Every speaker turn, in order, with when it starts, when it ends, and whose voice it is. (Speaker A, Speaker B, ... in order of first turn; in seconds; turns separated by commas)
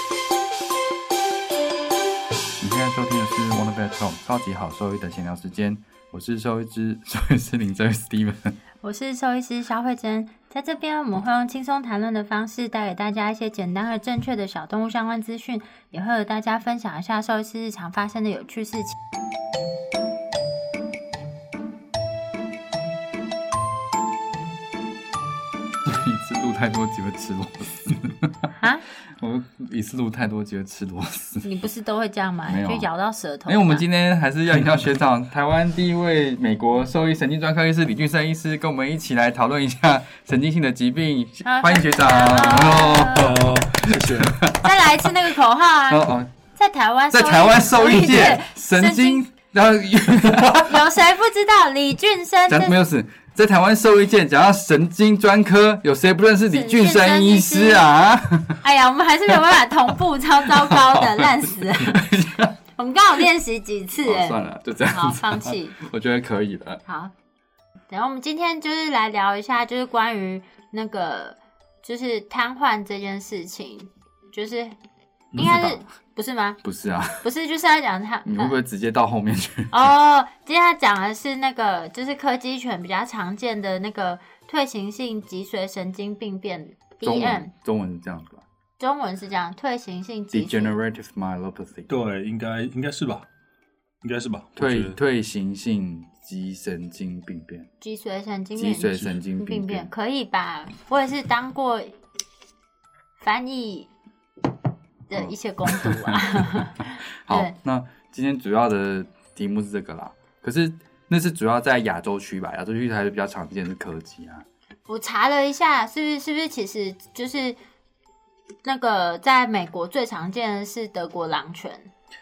Speaker A: 2.6-8.6, Speaker B: 8.8-18.9, Speaker A: 25.9-28.3, Speaker B: 28.6-28.8, Speaker A: 29.2-31.5, Speaker B: 31.4-33.8, Speaker A: 32.5-32.9, Speaker A: 33.5-44.6, Speaker B: 41.4-43.4, Speaker C: 43.1-44.4, Speaker B: 44.5-46.0, Speaker A: 45.9-46.3, Speaker B: 46.5-49.2, Speaker A: 47.1-50.8, Speaker B: 50.5-52.8, Speaker A: 52.5-58.6, Speaker B: 56.5-57.9, Speaker B: 58.6-62.2, Speaker A: 60.4-62.5, Speaker B: 62.7-65.8, Speaker A: 64.0-66.8, Speaker B: 66.8-67.1, Speaker B: 67.9-74.8, Speaker C: 75.3-75.7, Speaker A: 75.4-75.8, Speaker B: 75.4-76.6, Speaker A: 76.6-77.2, Speaker B: 77.2-78.5, Speaker A: 78.2-79.9, Speaker B: 79.7-87.5, Speaker A: 87.0-88.4, Speaker B: 88.8-90.7, Speaker A: 90.3-91.9, Speaker C: 91.9-93.2, Speaker C: 94.0-95.0, Speaker A: 94.6-97.7, Speaker B: 97.8-101.9, Speaker A: 98.5-99.9, Speaker B: 103.2-103.9, Speaker B: 105.1-107.5, Speaker A: 105.8-106.2, Speaker A: 107.2-114.4, Speaker B: 114.9-117.6, Speaker B: 118.6-121.9